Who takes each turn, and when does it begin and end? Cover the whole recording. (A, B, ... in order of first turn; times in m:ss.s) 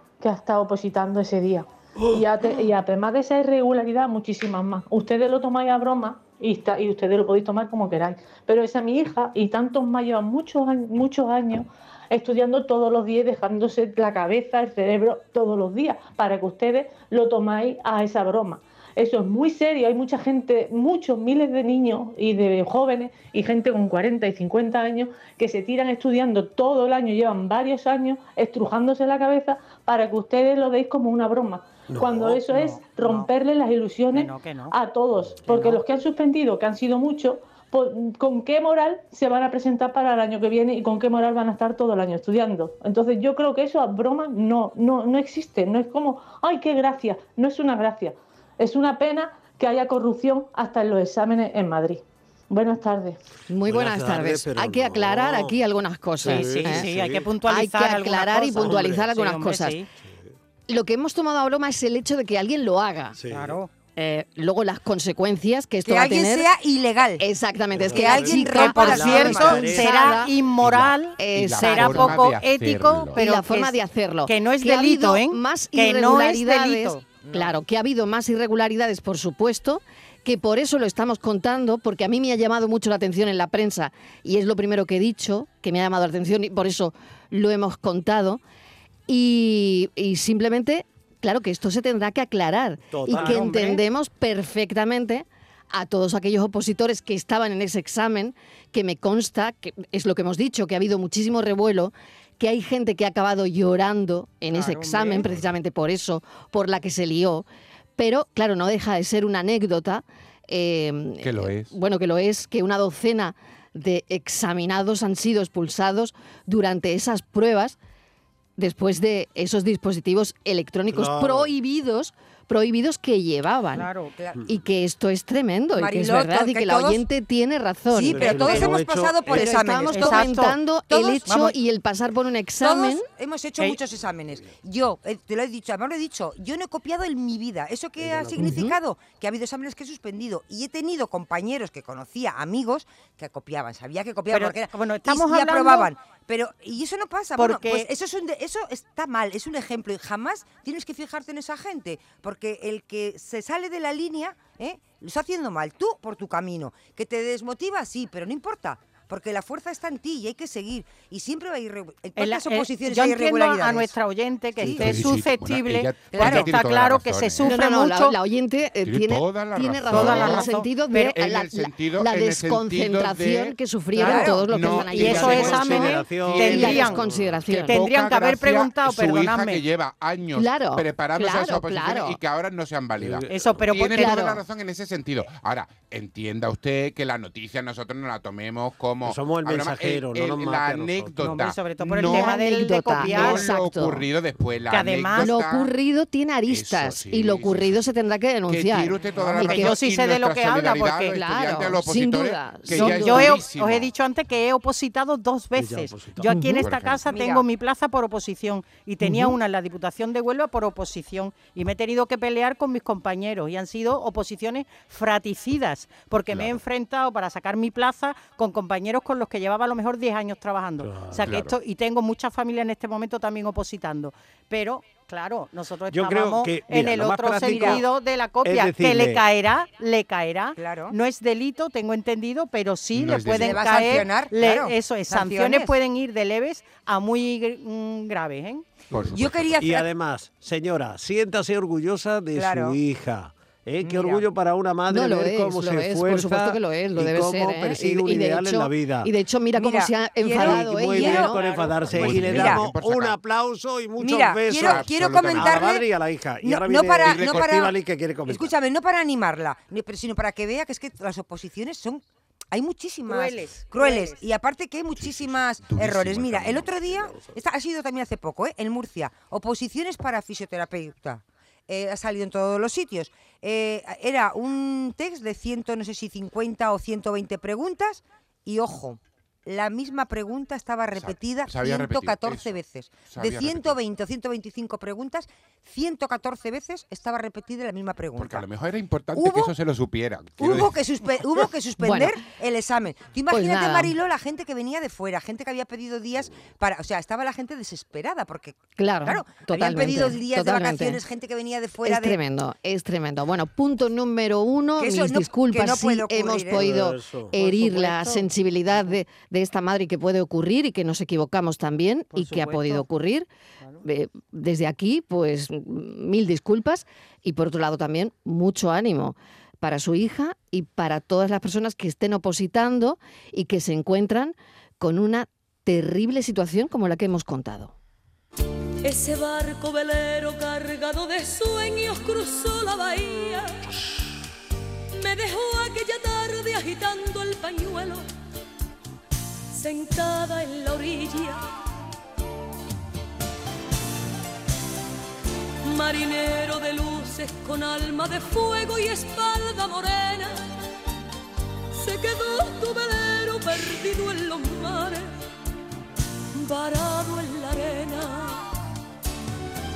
0:00.2-0:53.2 A
0:31.9-0:32.4 B
0:32.5-0:33.3 C
0:34.1-0:34.8 C
0:35.5-0:35.8 C
0:53.5-0:56.9 D
0:53.7-0:55.6 B
0:56.2-0:57.3 B
0:56.2-0:59.9 C
0:57.5-0:59.8 D
0:58.6-0:59.1 B
1:00.0-1:00.4 B
1:00.7-1:03.2 D
1:03.1-1:03.6 B
1:03.3-1:03.7 C
1:04.0-1:06.5 D
1:05.8-1:07.2 E
1:07.2-1:10.3 D
1:07.7-1:10.0 B
1:07.9-1:10.1 E
1:08.4-1:17.0 C
1:10.6-1:13.2 F
1:11.2-1:12.2 D
1:13.2-1:28.4 D
1:17.2-1:17.6 E
1:29.1-1:47.5 D
1:32.9-1:33.5 B
1:33.1-1:33.8 C
1:44.5-1:45.2 C
1:48.0-1:57.8 D
1:51.2-1:51.8 F
1:58.6-2:03.9 D
2:00.9-2:01.5 B
2:03.7-2:04.1 C
2:04.2-2:04.4 E
2:04.5-2:08.7 D
2:05.7-2:07.0 E
2:07.9-2:10.3 E
2:08.1-2:09.5 B
2:09.3-2:13.1 D
2:09.9-2:10.6 C
2:10.9-2:11.3 E
2:11.3-2:11.6 C
2:12.6-2:43.9 E
2:18.0-2:18.7 B
2:18.4-2:18.8 D
2:24.3-2:25.9 C
2:27.4-2:27.9 C
2:42.2-2:48.2 C
2:44.6-2:45.0 E
2:44.6-2:47.5 F
2:46.1-2:46.6 E
2:47.4-2:57.8 D
2:48.8-2:50.5 F
2:49.9-2:51.2 C
2:51.1-2:53.6 F
2:54.0-2:54.2 C
2:54.0-2:54.4 E
2:54.2-3:12.4 F
2:54.8-2:57.0 B
2:54.9-2:57.0 C
2:57.7-2:59.6 C
3:00.3-3:02.2 D
3:03.0-3:03.6 B
3:03.3-3:04.3 C
3:04.0-3:04.4 D
3:09.0-3:11.3 B
3:11.2-3:13.5 C
3:12.1-3:14.1 D
3:13.0-3:15.7 F
3:14.7-3:15.3 C
3:15.2-3:19.8 D
3:16.5-3:17.9 F
3:18.5-3:23.9 F
3:19.4-3:21.2 C
3:21.1-3:23.4 D
3:22.7-3:58.6 C
3:25.6-3:26.3 B
3:26.3-3:26.6 D
3:26.5-3:27.0 F
3:27.1-3:27.4 E
3:29.0-3:29.4 D
3:36.3-3:36.6 F
3:40.8-3:41.3 B
3:41.2-3:41.6 F
3:45.9-3:47.8 B
3:47.4-3:47.8 E
3:48.4-3:49.2 B
3:50.6-3:50.9 E
3:52.9-3:54.0 F
3:53.4-3:55.7 E
3:58.9-3:59.6 F
3:59.1-3:59.9 E
3:59.6-4:09.1 B
4:02.4-4:02.8 E
4:03.8-4:04.2 E
4:04.9-4:11.4 D
4:09.6-4:12.7 E
4:10.3-4:18.5 B
4:11.9-4:13.2 F
4:14.0-4:15.9 E
4:14.6-4:15.7 F
4:16.4-4:48.5 E
4:17.0-4:17.5 F
4:23.1-4:24.2 C
4:25.0-4:26.9 F
4:26.9-4:27.4 B
4:40.9-4:43.8 F
4:48.2-4:50.8 F
4:49.2-4:49.5 E
4:50.4-5:02.2 E
4:51.8-4:52.2 D
4:53.3-4:53.9 D
4:58.8-5:01.0 D
5:01.8-5:13.3 D
5:04.8-5:06.7 E
5:06.5-5:07.4 B
5:07.4-5:09.0 C
5:12.1-5:12.9 C
5:13.8-5:27.7 D
5:28.8-5:33.6 G
5:34.9-5:38.0 G
5:39.5-5:41.4 G
5:45.6-5:50.4 G
5:51.7-5:55.1 G
5:56.4-5:58.5 G